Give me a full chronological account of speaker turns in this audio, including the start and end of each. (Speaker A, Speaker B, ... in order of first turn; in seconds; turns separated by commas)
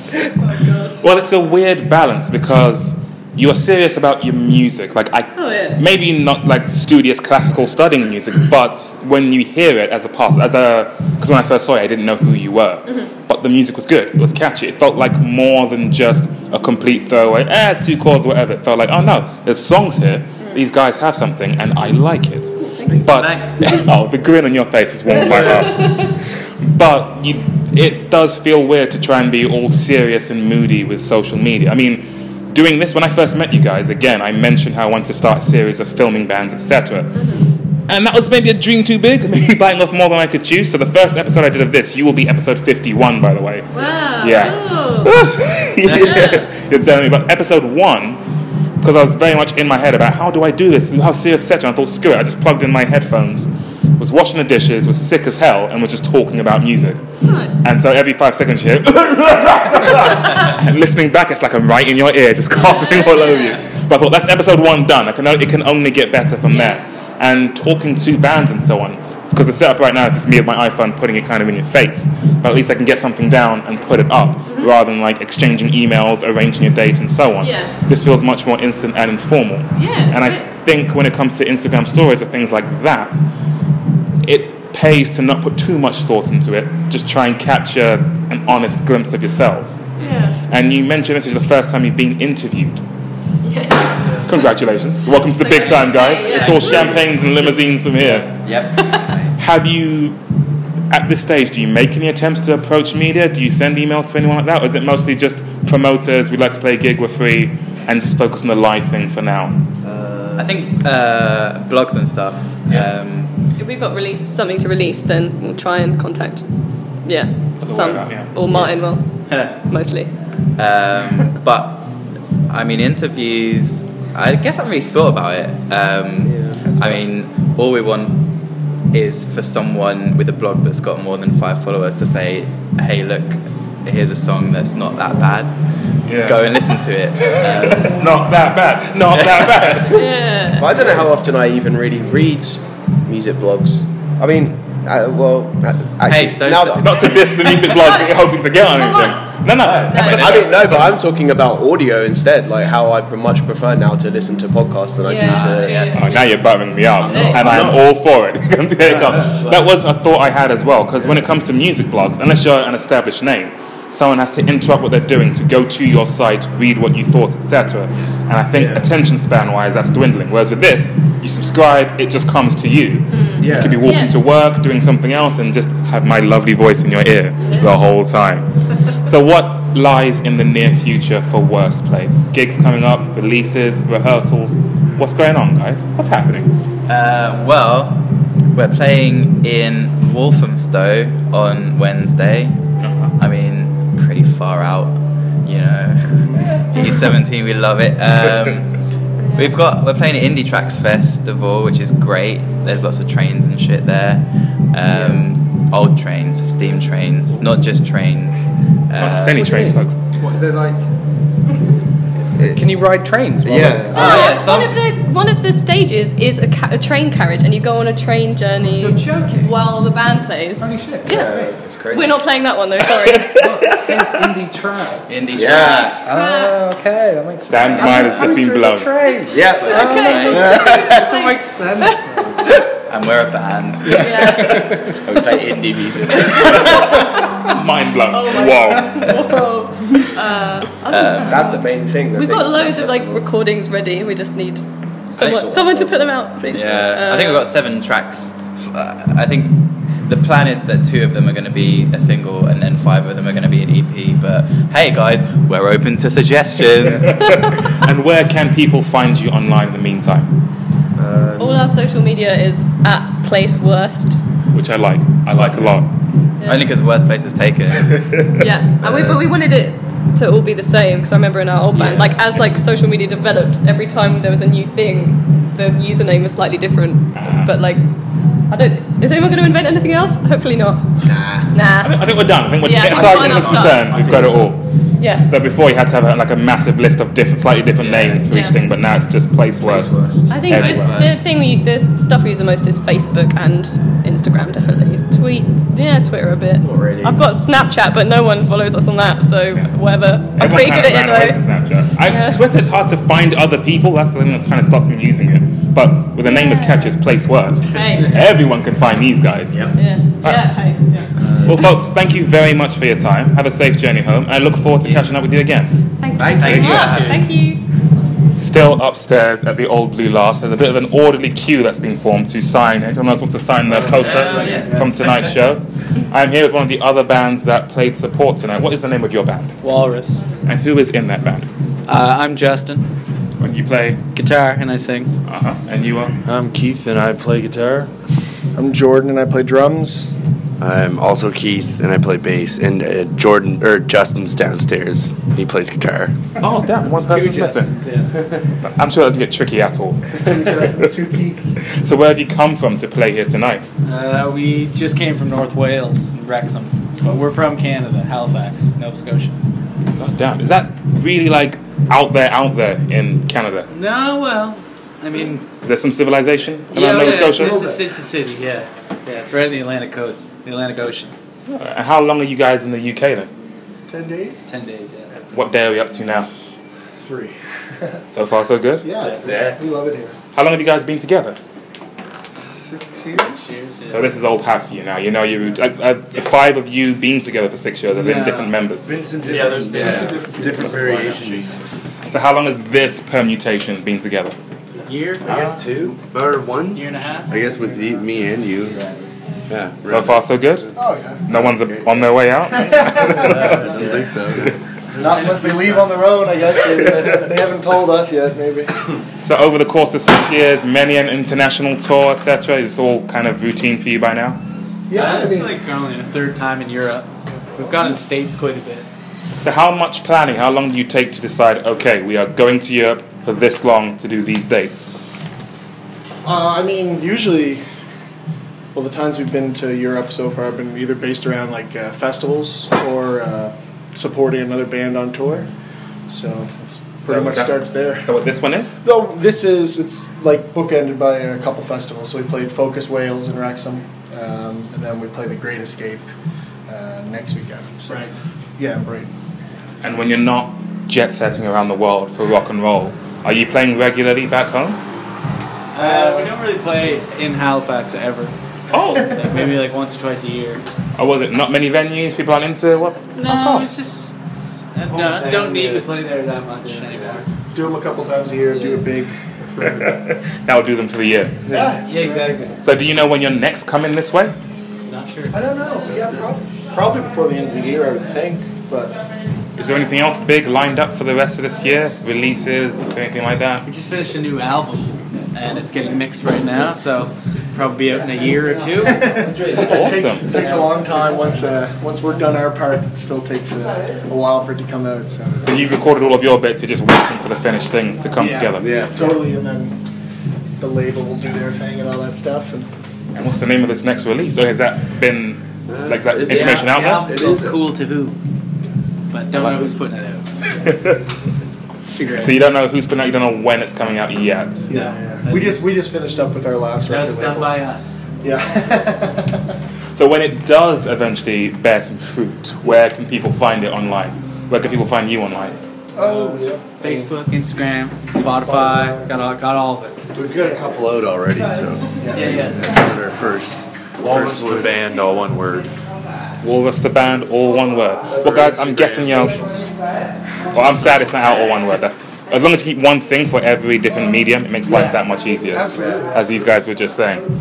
Speaker A: 0.2-1.0, Speaker B: 1.0-37.2, Speaker A: 5.3-5.8, Speaker A: 12.9-13.1, Speaker A: 22.7-23.1, Speaker C: 23.0-23.8, Speaker A: 25.4-26.1, Speaker A: 37.1-37.5, Speaker B: 37.9-48.2, Speaker A: 43.7-45.2, Speaker C: 45.8-46.3, Speaker A: 45.9-46.5, Speaker B: 48.8-57.0, Speaker A: 57.2-57.6, Speaker B: 57.6-83.2, Speaker A: 62.6-63.6, Speaker A: 66.5-66.8, Speaker A: 74.5-74.7, Speaker A: 77.4-77.8, Speaker A: 79.8-80.5, Speaker B: 84.2-89.8, Speaker A: 90.0-90.4, Speaker B: 90.5-92.8, Speaker A: 93.4-94.5, Speaker B: 94.2-98.3, Speaker A: 95.4-97.0, Speaker C: 95.5-99.3, Speaker A: 98.8-99.2, Speaker B: 99.4-100.2, Speaker B: 100.9-109.6, Speaker D: 109.8-110.6, Speaker C: 110.4-113.3, Speaker A: 113.6-116.5, Speaker A: 117.0-120.1, Speaker B: 117.6-118.4, Speaker C: 119.3-119.6, Speaker C: 120.6-122.0, Speaker C: 122.5-128.3, Speaker D: 126.2-126.6, Speaker B: 126.6-127.0, Speaker C: 128.9-135.6, Speaker B: 136.1-136.5, Speaker C: 136.2-138.0, Speaker B: 137.3-140.1, Speaker C: 139.2-139.9, Speaker A: 139.9-140.7, Speaker D: 140.6-147.2, Speaker C: 146.1-147.2, Speaker B: 146.8-151.0, Speaker A: 147.4-150.4, Speaker D: 149.6-156.0, Speaker A: 155.0-157.7, Speaker E: 155.5-156.0, Speaker B: 155.9-186.5, Speaker D: 157.0-157.9, Speaker D: 158.8-159.7, Speaker D: 168.5-168.9, Speaker A: 173.1-174.2, Speaker D: 173.4-173.8, Speaker A: 177.4-177.7, Speaker C: 186.9-192.6, Speaker B: 192.8-193.1, Speaker C: 193.2-198.8, Speaker A: 199.2-199.6, Speaker C: 199.3-209.5, Speaker D: 204.9-205.2, Speaker B: 209.0-210.0, Speaker F: 209.4-210.9, Speaker D: 212.4-212.6, Speaker F: 212.4-214.4, Speaker D: 213.4-214.2, Speaker C: 213.9-214.8, Speaker A: 214.0-223.5, Speaker F: 218.8-219.6, Speaker F: 220.6-221.1, Speaker D: 221.1-222.1, Speaker F: 223.3-225.4, Speaker C: 225.1-226.0, Speaker D: 225.3-226.0, Speaker A: 225.4-226.7, Speaker F: 226.1-232.5, Speaker B: 227.5-228.9, Speaker C: 227.7-228.1, Speaker A: 227.8-228.3, Speaker A: 229.1-232.0, Speaker D: 229.3-231.1, Speaker C: 229.8-230.7, Speaker C: 232.8-234.9, Speaker F: 233.9-234.8, Speaker A: 233.9-235.1, Speaker D: 235.0-236.9, Speaker A: 236.1-237.4, Speaker B: 237.4-239.1, Speaker A: 238.1-247.5, Speaker C: 240.9-241.5, Speaker D: 241.2-243.2, Speaker D: 245.1-246.5, Speaker C: 245.2-245.4, Speaker C: 246.5-257.2, Speaker B: 257.0-260.3, Speaker A: 257.2-257.6, Speaker D: 261.0-261.7, Speaker A: 261.4-264.2, Speaker B: 264.5-265.9, Speaker A: 266.4-266.7, Speaker C: 266.4-268.2, Speaker A: 268.3-277.9, Speaker D: 268.8-269.3, Speaker D: 271.8-272.1, Speaker B: 277.1-277.5, Speaker A: 278.5-283.9, Speaker D: 281.0-281.5, Speaker B: 281.8-284.7, Speaker D: 282.9-284.5, Speaker A: 285.0-285.3, Speaker B: 285.2-289.9, Speaker D: 287.8-288.2, Speaker A: 288.3-288.6, Speaker D: 289.6-291.1, Speaker A: 290.3-302.4, Speaker B: 290.5-291.1, Speaker C: 290.6-291.2, Speaker D: 296.6-297.2, Speaker B: 300.4-309.7, Speaker A: 306.2-307.0, Speaker A: 307.7-308.2, Speaker A: 309.8-311.1, Speaker B: 310.2-310.7, Speaker D: 311.2-311.5, Speaker B: 311.4-315.7, Speaker A: 316.0-317.6, Speaker D: 316.2-317.1, Speaker B: 316.3-316.8, Speaker C: 316.4-317.2, Speaker B: 318.4-329.6, Speaker C: 323.9-325.3, Speaker D: 324.4-324.9, Speaker E: 329.6-330.2, Speaker B: 330.5-331.5, Speaker E: 331.9-332.9, Speaker B: 333.4-334.0, Speaker E: 334.1-335.1, Speaker B: 335.2-336.2, Speaker G: 336.3-337.9, Speaker H: 338.5-340.1, Speaker I: 340.6-346.2, Speaker B: 346.4-347.8, Speaker E: 346.8-348.2, Speaker B: 348.6-350.9, Speaker H: 350.2-351.6, Speaker B: 351.6-353.6, Speaker E: 353.8-359.4, Speaker B: 360.0-363.7, Speaker E: 363.7-365.5, Speaker B: 365.6-367.6, Speaker E: 366.7-371.1, Speaker H: 367.1-367.9, Speaker B: 371.5-373.3, Speaker H: 373.9-374.4, Speaker E: 374.4-375.1, Speaker B: 375.3-376.3, Speaker H: 377.0-378.0, Speaker B: 378.1-378.9, Speaker H: 378.8-380.1, Speaker B: 380.3-381.4, Speaker H: 382.4-383.5, Speaker E: 383.4-384.2, Speaker B: 383.9-388.9, Speaker E: 387.9-388.6, Speaker I: 388.9-391.6, Speaker G: 388.9-391.6, Speaker E: 389.3-390.9, Speaker B: 392.1-394.4, Speaker E: 394.8-395.2, Speaker B: 395.3-395.6, Speaker I: 395.3-400.4, Speaker G: 395.6-396.5, Speaker E: 396.8-397.3, Speaker B: 399.9-400.7, Speaker H: 400.7-401.3, Speaker B: 401.3-403.7, Speaker I: 401.3-402.1, Speaker H: 402.5-404.0, Speaker I: 403.2-404.6, Speaker E: 403.7-404.0, Speaker E: 404.9-406.1, Speaker H: 404.9-408.9, Speaker B: 409.2-414.4, Speaker H: 414.9-415.6, Speaker E: 414.9-418.9, Speaker H: 417.6-417.9, Speaker B: 419.4-424.9, Speaker H: 426.2-427.6, Speaker H: 428.7-435.5, Speaker H: 436.1-438.1, Speaker B: 437.1-438.8, Speaker H: 438.8-446.1, Speaker H: 446.7-449.1, Speaker B: 449.8-454.8, Speaker E: 455.7-458.4, Speaker H: 455.8-456.4, Speaker B: 458.7-459.2, Speaker E: 459.1-460.6, Speaker B: 461.0-463.7, Speaker E: 463.2-464.1, Speaker E: 464.8-467.3, Speaker H: 467.5-469.9, Speaker E: 468.5-468.8, Speaker B: 469.6-471.4, Speaker H: 471.4-472.5, Speaker E: 471.5-472.6, Speaker B: 472.6-474.4, Speaker E: 474.9-476.2, Speaker H: 475.3-479.1, Speaker B: 479.6-483.7, Speaker E: 483.6-489.8, Speaker H: 488.7-495.6, Speaker B: 489.6-490.3, Speaker B: 495.4-498.7, Speaker E: 498.2-498.6, Speaker I: 498.6-499.1, Speaker H: 498.8-499.8, Speaker H: 500.6-502.7, Speaker B: 503.1-507.1, Speaker I: 505.7-507.6, Speaker E: 506.2-508.2, Speaker E: 509.1-510.7, Speaker I: 509.3-509.7, Speaker B: 510.5-511.1, Speaker E: 511.9-512.4, Speaker B: 512.2-514.7, Speaker H: 514.7-517.6, Speaker E: 514.7-515.6, Speaker E: 516.9-518.0, Speaker H: 518.2-519.5, Speaker B: 520.0-525.6, Speaker H: 525.9-527.1, Speaker E: 526.0-530.0, Speaker H: 528.2-529.1, Speaker I: 530.1-535.6, Speaker G: 530.2-531.7, Speaker H: 532.0-532.5, Speaker E: 532.1-532.7, Speaker G: 534.0-535.7, Speaker B: 536.4-539.7, Speaker G: 538.3-539.4, Speaker I: 538.4-539.2, Speaker B: 540.5-547.2, Speaker H: 544.7-546.2